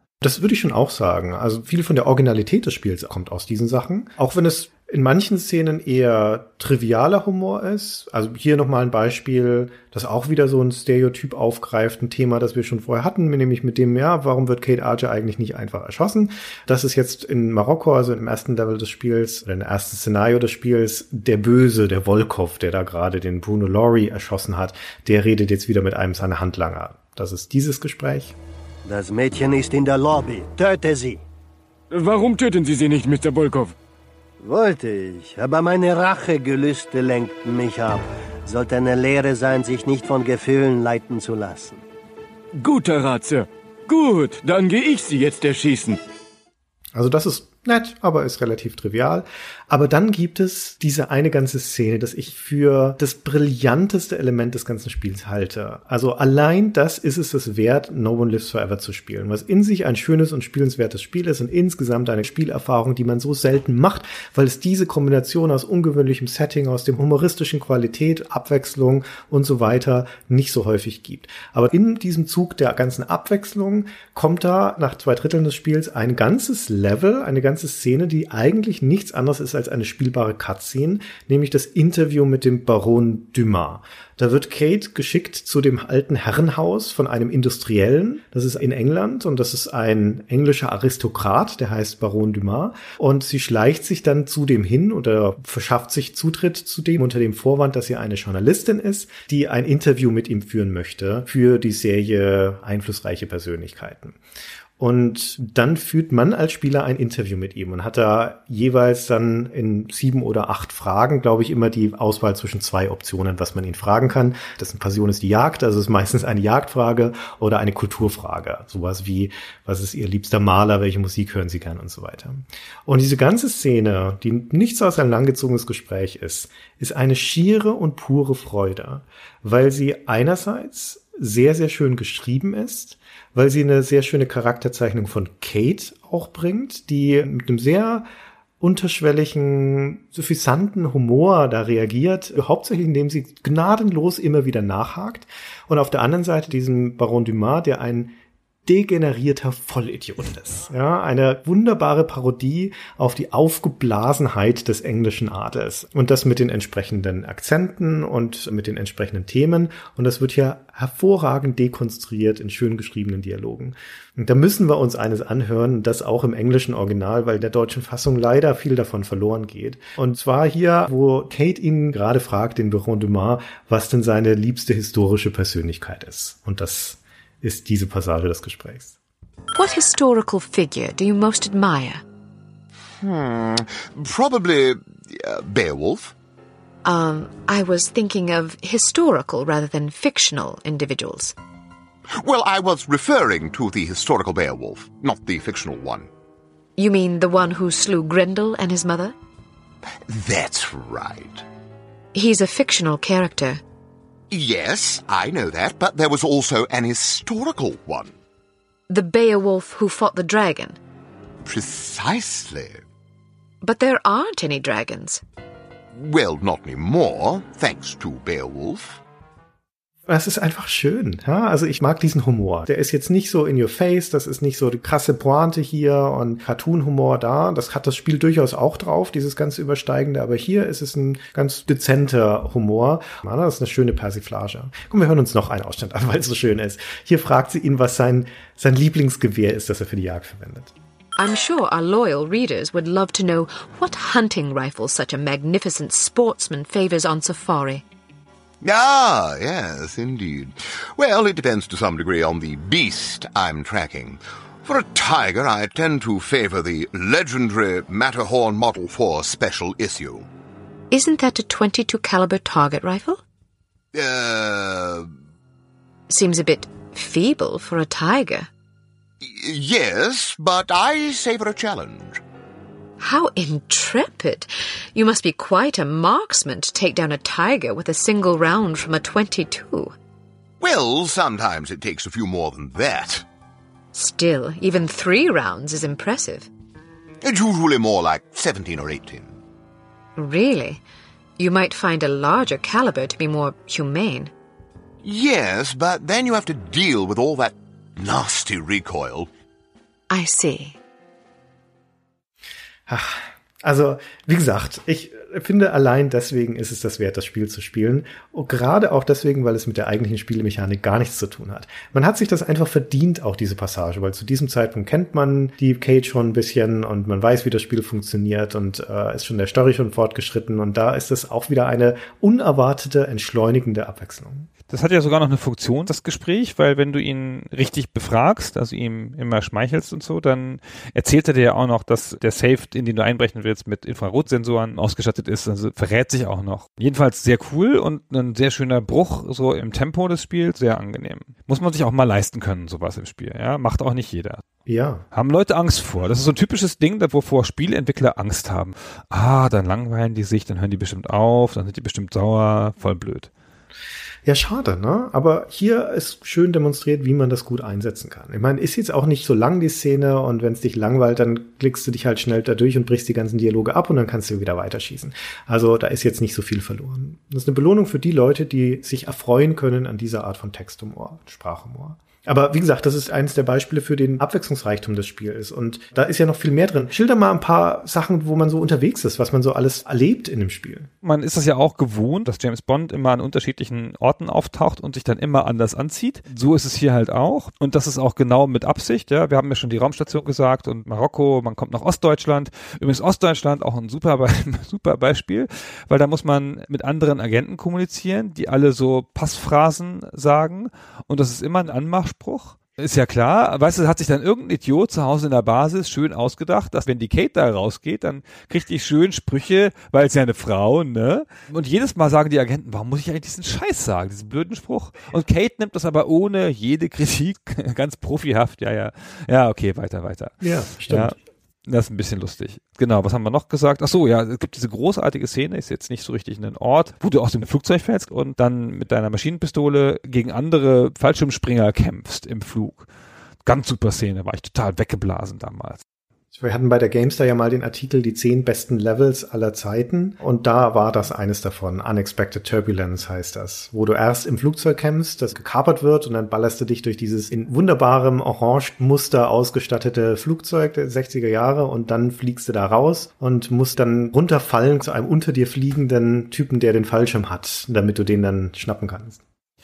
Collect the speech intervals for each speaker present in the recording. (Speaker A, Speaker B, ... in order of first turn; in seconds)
Speaker A: 0.2-28.4, 46.9-104.2, 104.8-138.1, 138.6-148.1, 148.7-179.0, 220.1-240.7, 302.9-324.5, 344.7-345.1, 354.3-380.9, 420.4-421.2, 436.3-459.2
Speaker B: 28.9-31.2, 34.4-41.8
Speaker C: 31.9-33.8, 42.5-46.0
Speaker D: 179.5-182.0, 186.8-191.3, 196.8-199.1, 202.1-203.6, 208.9-210.8, 213.6-215.2, 241.2-247.8, 260.9-263.2, 266.1-268.5, 273.0-279.9, 283.9-286.5, 290.2-290.8, 291.4-294.3, 300.1-300.8
Speaker E: 183.0-186.1, 192.1-196.1, 200.1-201.4, 204.3-208.2, 211.4-212.8, 215.9-219.0, 248.6-260.3, 263.9-265.1, 269.2-272.2, 280.6-283.2, 287.2-289.4, 295.0-299.3
Speaker F: 324.7-344.4, 345.1-353.3, 381.0-432.9, 433.5-435.8